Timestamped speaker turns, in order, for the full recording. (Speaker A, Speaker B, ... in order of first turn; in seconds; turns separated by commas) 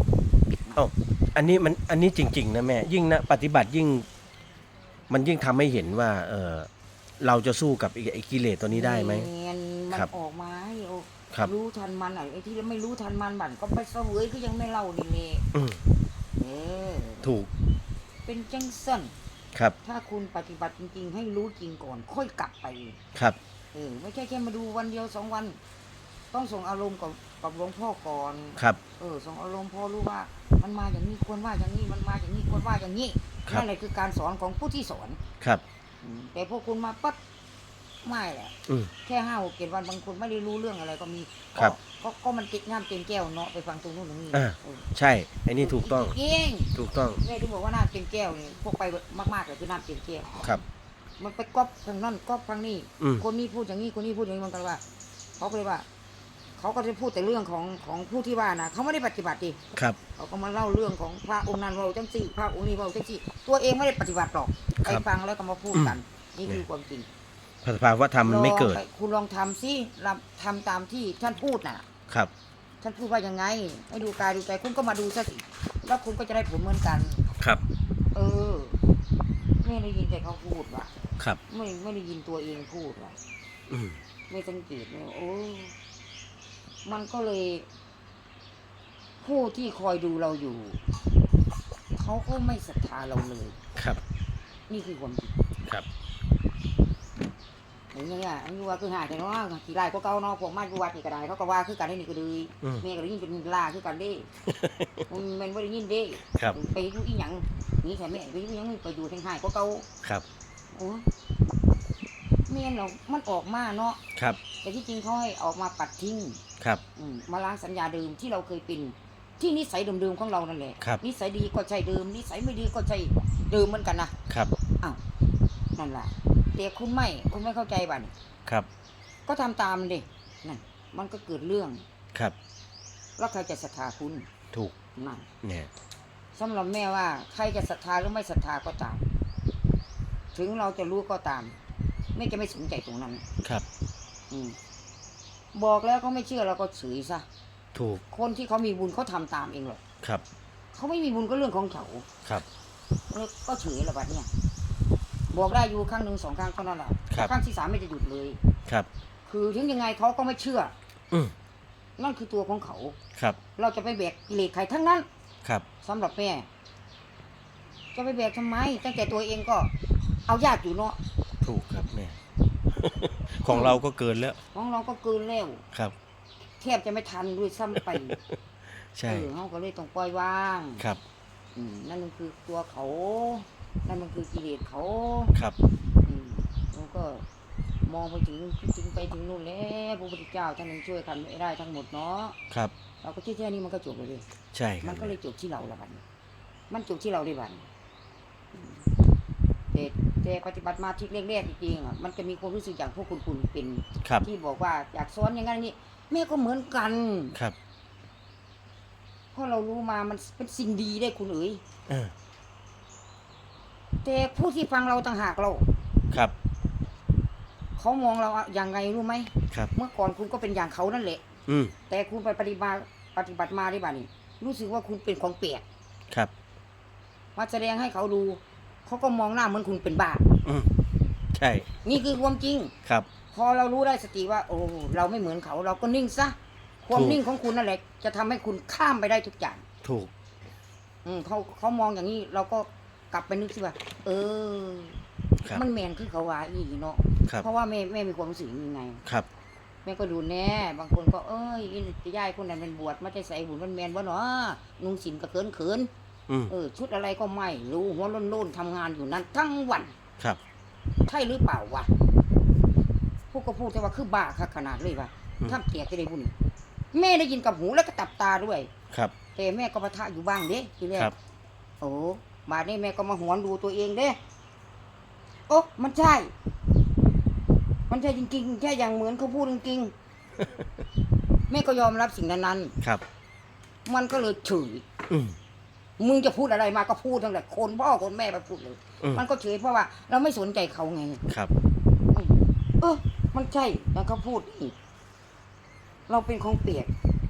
Speaker A: 0.8-4.1, Speaker A: 5.1-6.7, Speaker A: 7.2-9.3, Speaker B: 8.7-15.5, Speaker A: 15.5-15.8, Speaker B: 16.4-17.3, Speaker A: 17.2-17.5, Speaker B: 18.2-19.1, Speaker B: 19.8-23.0, Speaker B: 23.7-25.6, Speaker B: 26.3-35.2, Speaker B: 36.0-37.2, Speaker B: 38.0-44.9, Speaker A: 44.3-46.2, Speaker B: 45.6-50.5, Speaker A: 46.8-47.2, Speaker B: 51.2-54.8, Speaker B: 55.4-55.9, Speaker B: 56.6-59.6, Speaker B: 60.2-67.1, Speaker A: 67.6-68.8, Speaker B: 68.2-71.9, Speaker B: 72.8-77.3, Speaker B: 78.1-78.8, Speaker B: 79.6-80.9, Speaker B: 81.5-83.2, Speaker A: 83.7-84.0, Speaker B: 84.3-85.8, Speaker B: 86.8-87.7, Speaker B: 89.2-90.8, Speaker B: 91.9-93.6, Speaker A: 93.8-94.0, Speaker B: 94.7-95.4, Speaker B: 97.9-104.3, Speaker A: 104.5-105.0, Speaker B: 105.1-109.9, Speaker B: 110.7-111.1, Speaker B: 112.5-114.0, Speaker A: 114.2-114.4, Speaker B: 114.6-116.4, Speaker B: 117.0-124.2, Speaker B: 125.8-128.1, Speaker B: 129.3-131.8, Speaker B: 133.2-134.3, Speaker B: 135.0-135.3, Speaker A: 135.4-135.7, Speaker B: 136.3-139.0, Speaker B: 140.3-141.6, Speaker B: 142.2-143.2, Speaker B: 144.3-144.6, Speaker B: 145.5-147.3, Speaker A: 147.7-148.0, Speaker B: 148.1-149.8, Speaker B: 150.7-152.1, Speaker B: 153.1-154.3, Speaker B: 155.3-158.4, Speaker B: 159.2-160.7, Speaker B: 162.0-163.0, Speaker B: 163.6-165.1, Speaker B: 165.8-166.5, Speaker B: 167.9-169.7, Speaker B: 170.3-171.0, Speaker A: 171.4-172.2, Speaker A: 172.7-174.4, Speaker B: 173.5-173.8, Speaker B: 174.5-175.7, Speaker B: 176.6-178.2, Speaker A: 177.8-178.2, Speaker A: 178.9-179.3, Speaker B: 179.1-180.8, Speaker B: 181.6-185.3, Speaker B: 186.1-187.2, Speaker B: 187.8-192.4, Speaker B: 193.0-194.3, Speaker A: 194.5-195.2, Speaker B: 194.8-196.0, Speaker B: 196.7-197.7, Speaker B: 198.5-198.9, Speaker B: 199.7-207.4, Speaker B: 209.3-211.6, Speaker A: 211.9-212.1, Speaker B: 214.0-215.7, Speaker B: 217.8-221.2, Speaker A: 221.5-221.7, Speaker B: 221.9-225.6, Speaker B: 227.4-230.3, Speaker A: 230.4-230.7, Speaker A: 231.3-231.7, Speaker B: 231.8-232.7, Speaker B: 233.3-239.7, Speaker A: 236.9-237.2, Speaker A: 239.8-240.1, Speaker B: 241.1-249.0, Speaker B: 249.8-255.9, Speaker B: 256.5-259.9, Speaker B: 261.1-261.9, Speaker B: 263.3-266.3, Speaker B: 266.9-268.7, Speaker B: 269.4-271.1, Speaker B: 271.8-274.2, Speaker B: 275.5-276.3, Speaker B: 277.9-279.9, Speaker B: 281.5-282.8, Speaker B: 283.9-284.9, Speaker A: 285.1-285.4, Speaker B: 286.0-291.2, Speaker B: 292.1-294.8, Speaker B: 296.1-296.9